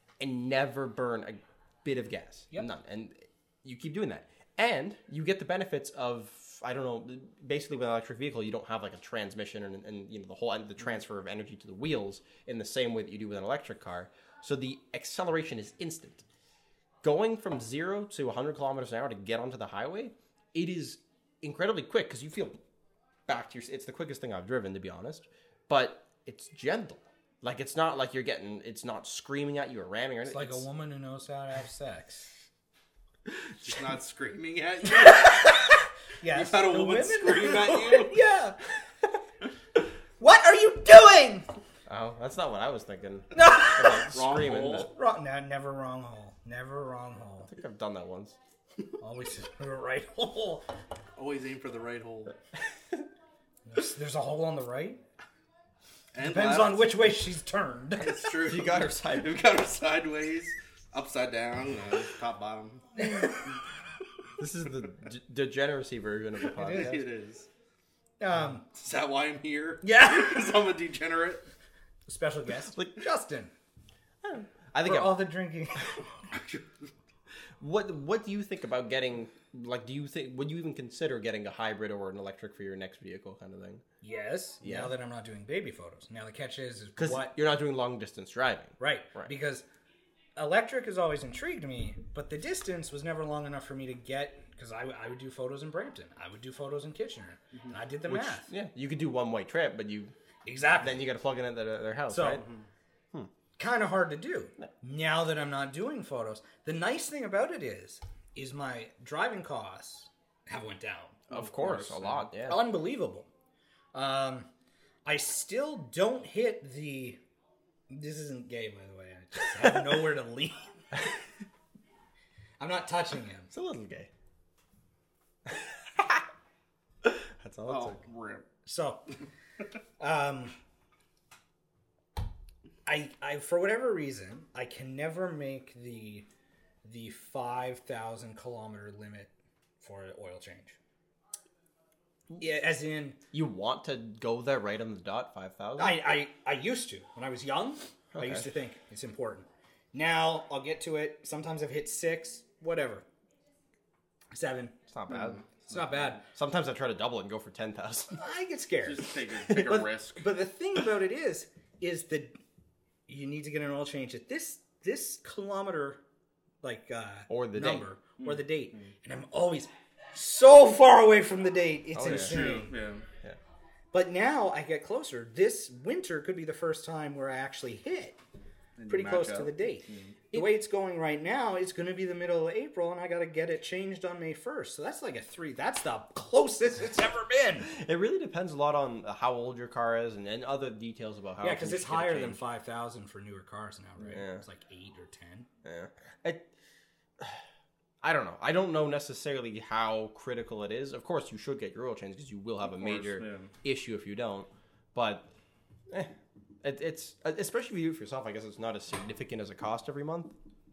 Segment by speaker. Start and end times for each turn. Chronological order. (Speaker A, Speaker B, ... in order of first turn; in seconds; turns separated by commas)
Speaker A: 0.2-16.2, Speaker A: 17.0-22.6, Speaker A: 23.3-30.6, Speaker B: 30.3-32.3, Speaker C: 33.5-35.5, Speaker B: 36.2-38.6, Speaker C: 36.2-38.2, Speaker B: 40.2-41.5, Speaker A: 41.9-44.9, Speaker B: 43.3-47.5, Speaker C: 44.2-44.9, Speaker A: 47.5-48.4, Speaker B: 49.0-50.7, Speaker C: 51.1-52.4, Speaker B: 53.7-55.0, Speaker C: 56.1-57.1, Speaker B: 56.2-58.2, Speaker C: 58.0-63.0, Speaker A: 58.4-59.4, Speaker B: 63.0-63.3, Speaker A: 64.4-67.0, Speaker B: 66.6-67.0, Speaker C: 66.6-67.5, Speaker B: 68.2-68.6, Speaker C: 68.6-71.5, Speaker B: 69.8-70.7, Speaker B: 72.1-73.5, Speaker A: 72.7-73.0, Speaker A: 74.2-75.2, Speaker B: 74.8-76.0, Speaker A: 77.6-83.8, Speaker B: 84.0-87.3, Speaker A: 84.6-84.9, Speaker A: 87.0-89.3, Speaker B: 88.8-89.7, Speaker B: 90.3-98.5, Speaker A: 98.1-100.1, Speaker B: 100.4-101.0, Speaker A: 100.8-102.4, Speaker B: 102.1-102.5, Speaker B: 103.6-111.2, Speaker A: 111.3-112.6, Speaker C: 111.3-112.2, Speaker B: 112.4-113.3, Speaker B: 113.9-114.5, Speaker B: 115.0-117.2, Speaker B: 117.9-120.7, Speaker B: 122.6-123.5, Speaker A: 123.5-124.1, Speaker A: 125.5-126.2, Speaker A: 127.0-128.0, Speaker C: 127.7-128.5, Speaker B: 128.6-129.0, Speaker B: 130.0-130.5, Speaker B: 132.8-136.3, Speaker B: 136.8-140.8, Speaker B: 142.4-143.2, Speaker A: 143.3-146.0, Speaker B: 145.8-153.0, Speaker A: 148.1-148.5, Speaker B: 154.3-154.8, Speaker A: 154.9-155.7, Speaker C: 155.1-155.5, Speaker B: 155.7-156.2, Speaker A: 156.3-158.2, Speaker B: 158.2-162.3, Speaker C: 158.8-160.3, Speaker B: 163.1-166.0, Speaker B: 166.6-172.7, Speaker A: 167.3-167.8, Speaker C: 168.2-168.8, Speaker A: 171.9-172.4, Speaker C: 172.0-173.0, Speaker B: 173.9-178.2, Speaker C: 178.8-180.4, Speaker B: 178.9-187.7, Speaker A: 187.6-192.4, Speaker B: 191.4-195.5, Speaker A: 194.1-194.4, Speaker A: 195.6-196.5, Speaker A: 198.0-205.3, Speaker C: 202.7-203.5, Speaker A: 206.6-210.3